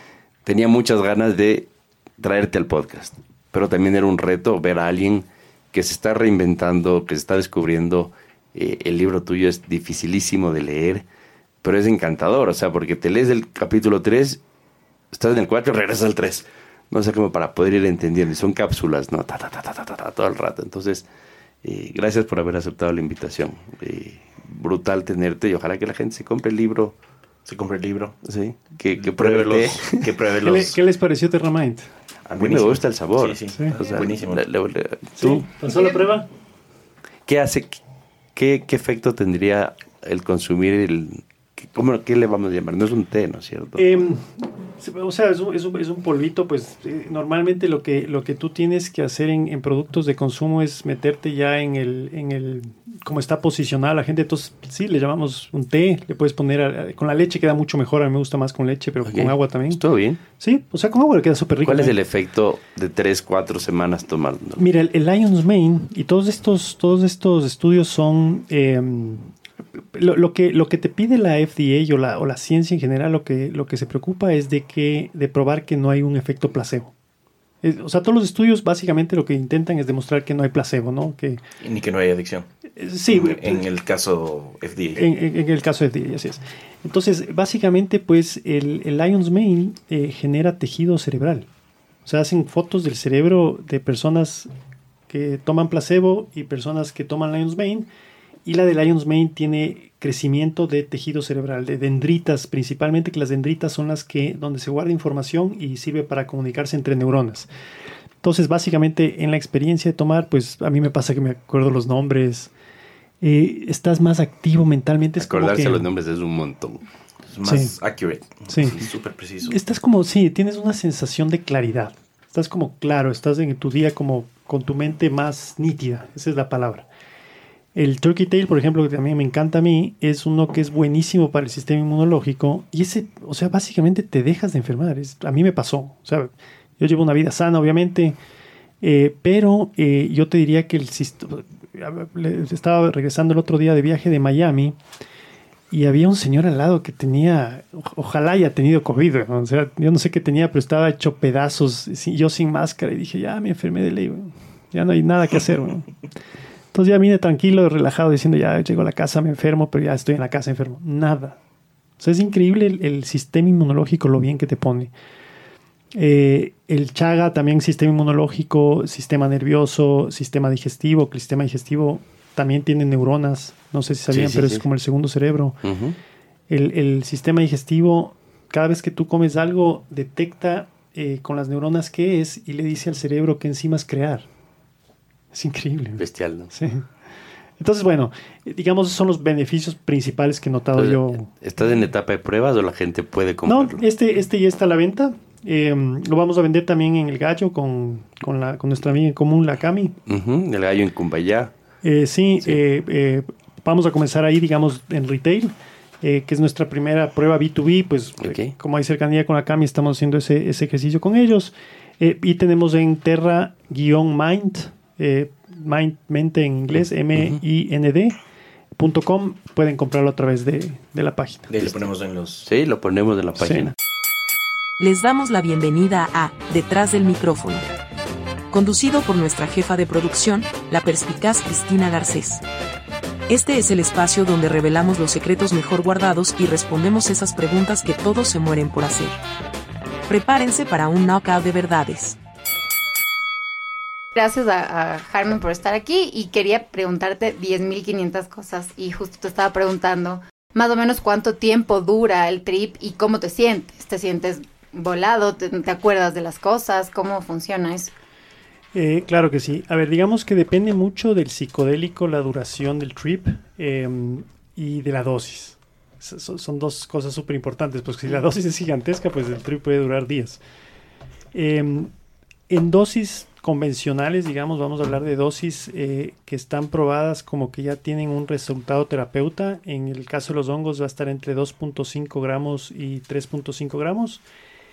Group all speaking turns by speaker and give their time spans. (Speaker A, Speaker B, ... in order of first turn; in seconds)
Speaker A: 0.5-11.1, 11.6-14.4, 15.1-21.1, 21.6-26.9, 28.2-30.1, 32.3-35.5, 37.3-37.8, 38.4-43.9, 59.0-60.2, 61.6-64.6, 115.2-116.8, 174.1-174.7, 175.6-176.0, 186.0-186.5, 190.8-193.8, 200.1-201.5, 208.2-208.6, 216.8-217.4, 222.4-223.8
Speaker B: 27.5-28.2, 28.9-30.8, 32.4-34.5, 81.6-82.5, 83.1-85.0, 117.3-119.6, 221.5-222.5
Speaker C: 30.4-31.9, 35.2-36.3, 43.8-59.8, 60.4-62.0, 64.6-76.9, 77.6-81.4, 82.8-83.6, 85.0-91.5, 92.1-94.5, 95.1-97.9, 98.5-107.5, 108.2-112.5, 113.2-115.9, 117.5-117.8, 118.5-118.8, 119.5-126.9, 127.8-138.2, 138.8-144.8, 145.7-155.9, 156.7-161.4, 162.0-164.9, 165.9-175.6, 176.5-184.3, 185.3-186.9, 187.6-191.3, 193.5-199.9, 201.8-218.2, 218.8-221.5, 223.4-223.7, 258.8-270.4, 271.3-271.9, 272.5-284.2
Speaker D: 224.8-227.7, 228.5-232.4, 233.3-239.2, 240.1-242.2
Speaker E: 244.2-257.9